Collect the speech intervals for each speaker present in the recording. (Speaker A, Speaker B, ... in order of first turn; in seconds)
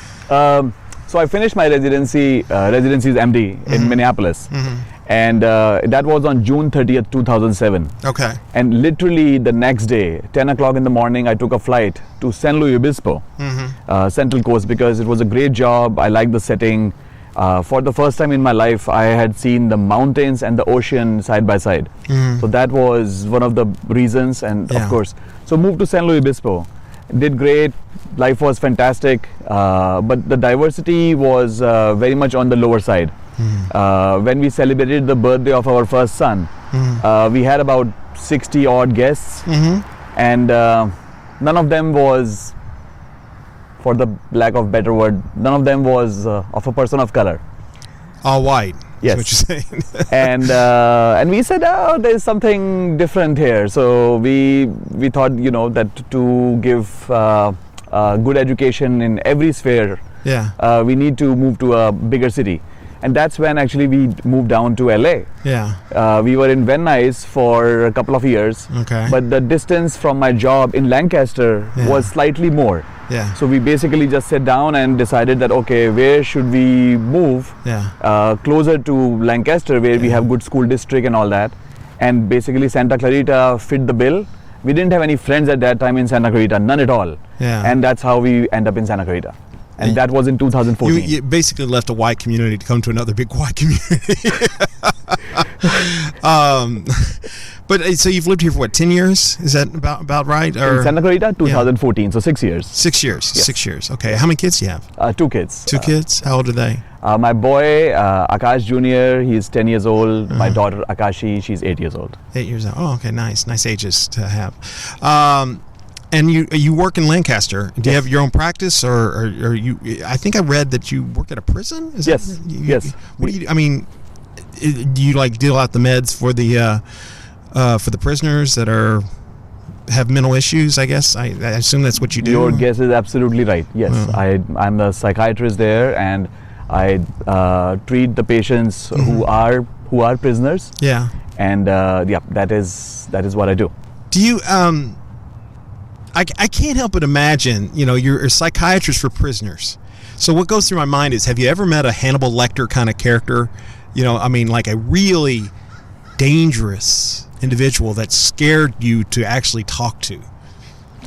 Speaker A: 0.3-4.5, 5.0-7.9, 8.5-13.2, 13.9-33.1, 33.7-39.5, 40.1-42.5, 43.8-47.4, 49.0-49.3, 50.1-60.0, 60.6-65.3, 65.9-91.1, 100.6-102.8, 105.0-105.9, 107.0-112.2, 122.0-123.3, 132.2-140.7, 141.3-143.7
Speaker B: 3.7-4.8, 8.0-8.4, 13.4-13.8, 22.1-22.4, 24.7-25.0, 33.4-33.7, 36.7-37.0, 39.5-39.8, 48.2-50.5, 60.2-60.5, 65.4-65.8, 68.7-69.2, 71.8-72.1, 73.1-73.4, 77.6-77.9, 87.4-87.7, 90.8-101.7, 102.7-104.8, 105.7-106.8, 110.3-110.6, 112.3-123.9, 124.5-126.8, 127.5-129.0, 129.9-132.7, 133.9-134.2, 138.9-139.2, 140.8-141.1, 144.1-145.0, 146.1-155.5, 156.2-160.2